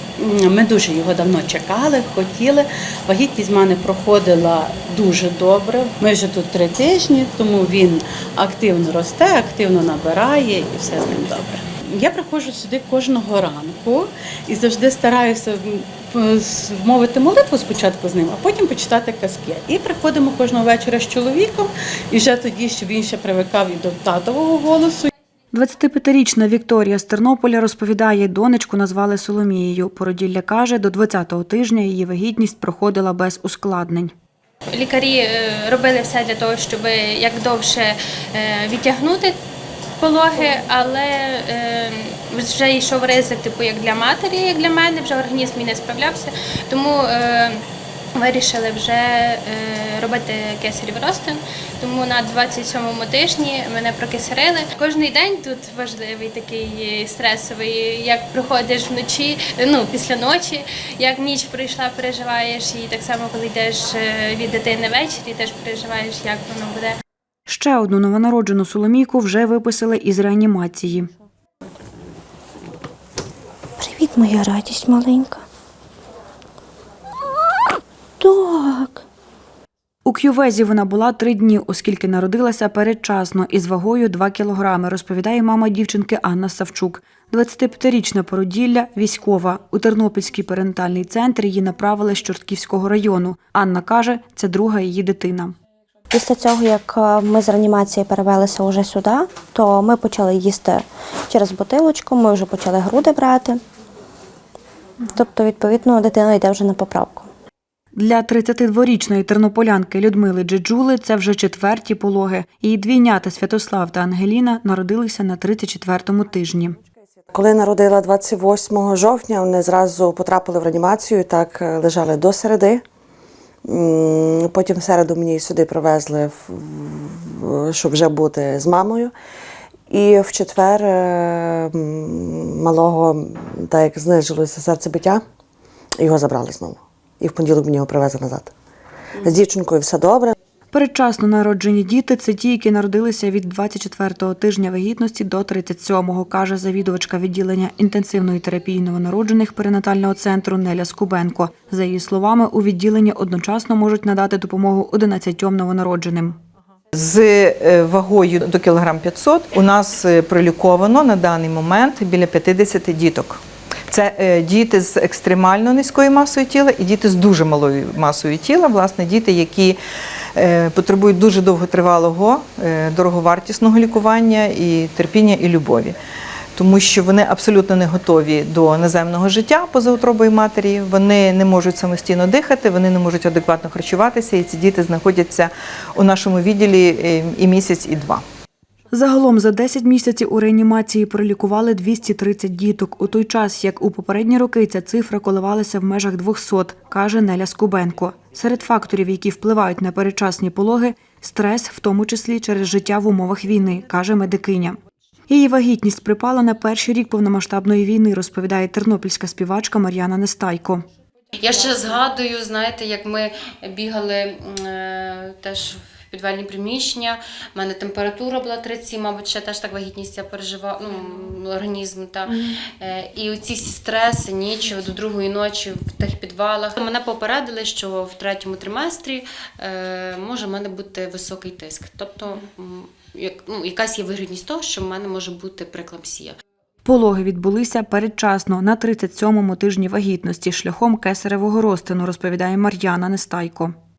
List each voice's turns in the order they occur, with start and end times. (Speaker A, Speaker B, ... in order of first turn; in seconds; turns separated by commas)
Speaker A: 0.2-25.1, Speaker B: 25.5-34.1, Speaker C: 34.7-39.4, Speaker C: 40.0-47.6, Speaker C: 48.2-67.0, Speaker B: 67.5-71.1, Speaker D: 73.8-75.4, Speaker D: 78.2-79.0, Speaker B: 80.0-95.5, Speaker D: 96.1-103.6, Speaker D: 105.0-107.3, Speaker B: 107.9-116.8, Speaker E: 117.3-122.8, Speaker E: 123.6-129.1, Speaker E: 129.9-135.2, Speaker E: 136.0-138.5, Speaker E: 139.2-140.3, Speaker B: 140.7-156.4, Speaker F: 156.9-169.8, Speaker F: 170.3-175.9, Speaker F: 176.6-188.2, Speaker B: 188.9-204.8, Speaker B: 205.3-210.8, Speaker G: 211.4-236.4, Speaker B: 236.8-243.7